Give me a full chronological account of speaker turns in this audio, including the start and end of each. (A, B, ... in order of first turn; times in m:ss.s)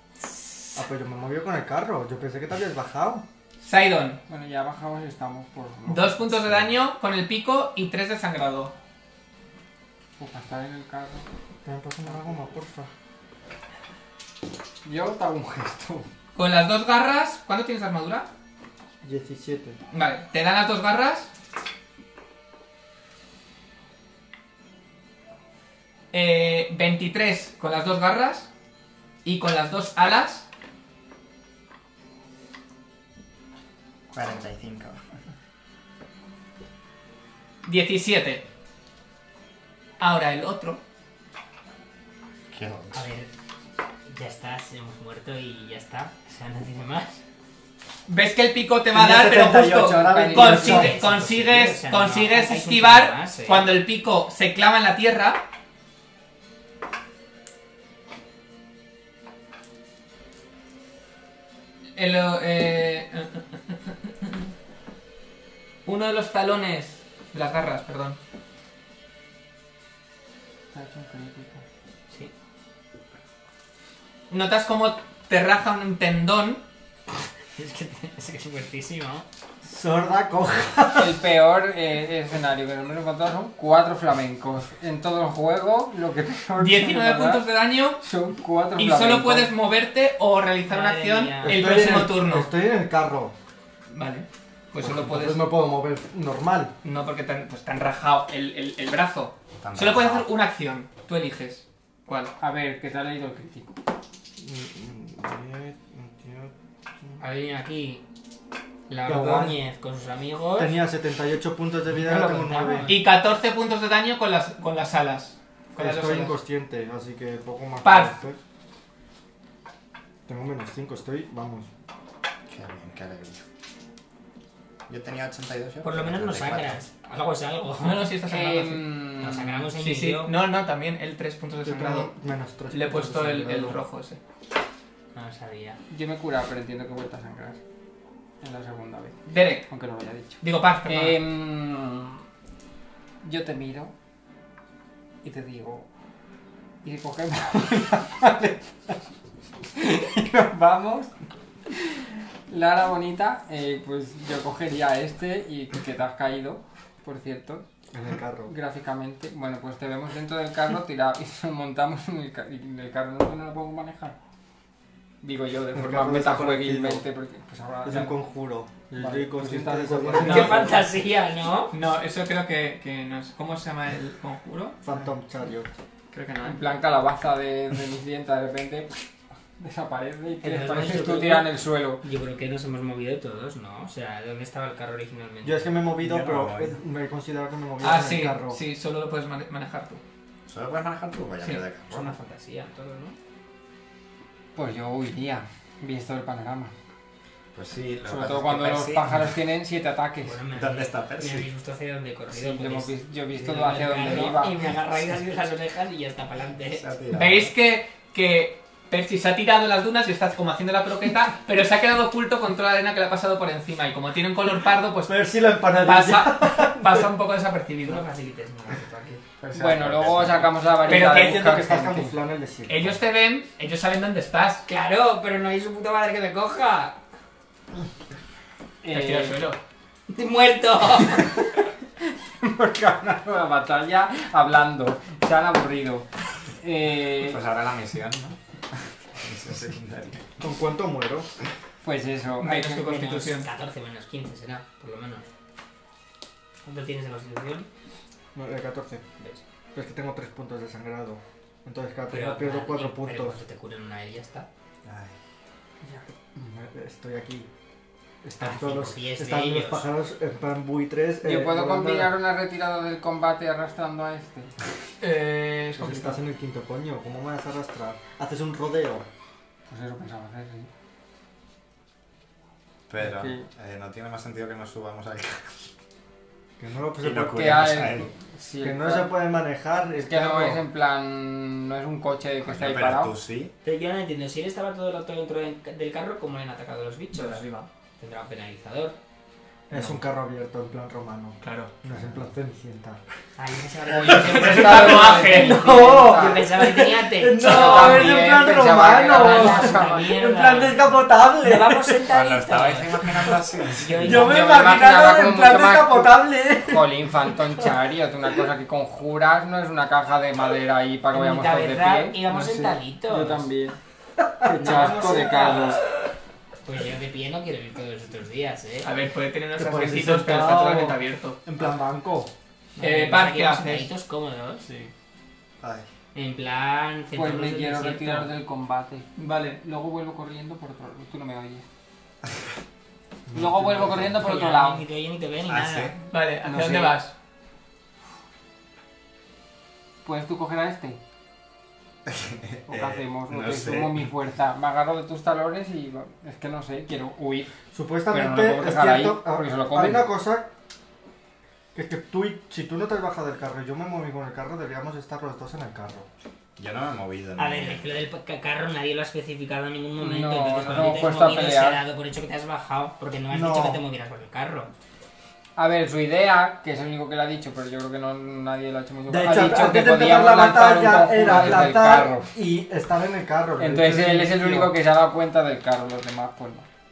0:00.3-0:00.7 A
0:00.8-0:03.2 B
0:03.6-0:04.2 A
0:04.3-0:06.3 C
0:05.9-0:08.7 A
0:10.2-0:11.2 C
0:11.6-0:12.9 B
0:14.8-0:16.1 C
0:16.4-0:18.3 A
0:19.0-0:19.8 B
0:19.9-0:21.3 A
0:26.1-0:28.5 A
0:29.2-0:30.5 A
0:34.1-0:35.0 D
0:37.6-0:38.4 A
0:40.0-0:40.8 A
0:42.5-0:43.0 D
0:42.9-0:43.3 E
0:44.1-0:47.2 E
0:48.1-0:55.4 A
0:48.9-0:51.0 B
0:49.9-0:50.9 C
0:50.3-0:53.7 E
1:02.0-1:04.4 A
1:05.8-1:08.2 A
1:10.7-1:11.6 C
1:14.3-1:16.6 A
1:17.5-1:19.2 E
1:19.6-1:21.2 B
1:21.0-1:27.5 C
1:26.6-1:28.0 A
1:28.0-1:29.5 C
1:28.8-1:32.5 A
1:30.7-1:31.9 E
1:31.4-1:33.3 B
1:33.9-1:35.4 A
1:34.8-1:36.7 B
1:36.8-1:42.3 A
1:39.6-1:40.3 D
1:42.4-1:43.7 C
1:44.4-1:46.5 B
1:47.2-1:48.0 E
1:48.9-1:50.7 E
1:49.0-1:49.6 B
1:50.6-1:52.9 B
1:51.9-1:53.0 E
1:52.9-1:56.3 A
1:55.8-1:58.4 B
1:57.8-1:58.1 A
2:00.3-2:01.7 B
2:02.5-2:03.4 D
2:04.9-2:06.8 D
2:05.8-2:08.1 E
2:07.8-2:09.1 A
2:08.3-2:09.6 C
2:09.2-2:10.3 E
2:09.8-2:12.1 A
2:11.6-2:13.8 B
2:12.7-2:14.2 A
2:15.1-2:15.8 E
2:15.9-2:17.6 C
2:18.4-2:22.2 C
2:19.3-2:19.7 A
2:20.4-2:21.2 A
2:23.2-2:23.9 C
2:25.2-2:25.9 C
2:26.8-2:29.0 C
2:29.6-2:31.1 C
2:31.7-2:37.6 C
2:37.9-2:38.5 B
2:38.5-2:44.2 C
2:45.2-2:48.2 C
2:45.7-2:47.0 B
2:47.8-2:50.7 B
2:49.0-2:50.8 C
2:50.2-2:51.8 E
2:50.2-2:50.7 A
2:51.7-2:54.8 A
2:54.8-2:55.7 B
2:56.1-2:56.6 A
2:56.4-3:02.0 C
3:00.4-3:01.5 E
3:02.0-3:05.7 E
3:05.4-3:08.6 B
3:06.0-3:06.8 D
3:07.8-3:10.0 A
3:10.5-3:12.2 D
3:11.9-3:13.2 E
3:14.5-3:16.7 C
3:17.5-3:19.3 D
3:18.0-3:20.4 C
3:20.2-3:26.8 E
3:20.5-3:21.5 D
3:22.3-3:24.6 C
3:26.7-3:27.5 D
3:27.1-3:35.2 A
3:35.0-3:37.0 B
3:35.8-3:38.0 A
3:37.8-3:39.2 E
3:39.4-3:40.7 D
3:39.5-3:42.2 C
3:40.8-3:41.5 A
3:40.8-3:42.8 B
3:42.7-3:44.6 A
3:44.7-3:47.0 E
3:48.8-3:49.4 C
3:48.9-3:49.6 A
3:50.1-3:51.4 E
3:52.4-3:57.4 C
3:57.1-3:58.4 D
3:59.1-4:00.3 D
4:00.4-4:01.3 B
4:01.8-4:02.6 C
4:02.4-4:03.5 A
4:02.5-4:05.2 E
4:06.6-4:07.7 E
4:08.3-4:09.0 B
4:09.7-4:13.4 B
4:12.1-4:14.5 E
4:14.8-4:15.2 D
4:16.3-4:17.5 B
4:18.2-4:22.1 B
4:18.4-4:19.8 E
4:21.2-4:24.5 C
4:25.0-4:26.2 A
4:25.8-4:29.0 B
4:29.7-4:30.7 C
4:32.9-4:35.7 D
4:33.0-4:33.5 C
4:36.6-4:37.7 B
4:37.0-4:38.1 D
4:37.3-4:39.1 C
4:38.6-4:40.6 B
4:40.0-4:43.1 C
4:42.4-4:43.5 D
4:43.6-4:47.4 E
4:47.1-4:47.7 A
4:48.0-4:49.0 E
4:49.7-4:53.0 B
4:49.7-4:50.0 A
4:51.4-4:51.7 A
4:53.4-4:58.2 E
4:53.9-4:56.4 C
4:54.0-5:02.0 B
4:54.2-4:55.6 A
4:57.4-5:00.1 C
4:59.0-5:04.4 E
5:02.1-5:04.3 D
5:04.0-5:07.0 B
5:04.1-5:13.8 C
5:11.1-5:13.4 E
5:14.4-5:15.8 B
5:14.4-5:15.8 C
5:14.6-5:15.7 E
5:16.6-5:18.9 E
5:18.8-5:21.5 A
5:19.6-5:22.3 B
5:22.8-5:24.7 E
5:22.8-5:23.9 A
5:25.6-5:25.9 D
5:26.1-5:28.3 E
5:27.1-5:31.6 C
5:29.2-5:29.6 A
5:33.3-5:34.1 B
5:33.3-5:34.8 C
5:34.2-5:36.0 E
5:35.5-5:36.0 D
5:36.1-5:37.1 A
5:36.4-5:37.0 C
5:40.0-5:41.0 C
5:42.0-5:44.1 D
5:42.7-5:47.5 C
5:47.7-5:50.5 B
5:48.1-5:50.1 C
5:51.7-5:56.1 B
5:56.6-5:58.0 D
5:57.4-6:04.7 E
6:00.0-6:01.8 C
6:03.3-6:03.8 B
6:05.6-6:12.3 C
6:09.1-6:14.7 B
6:13.6-6:16.6 C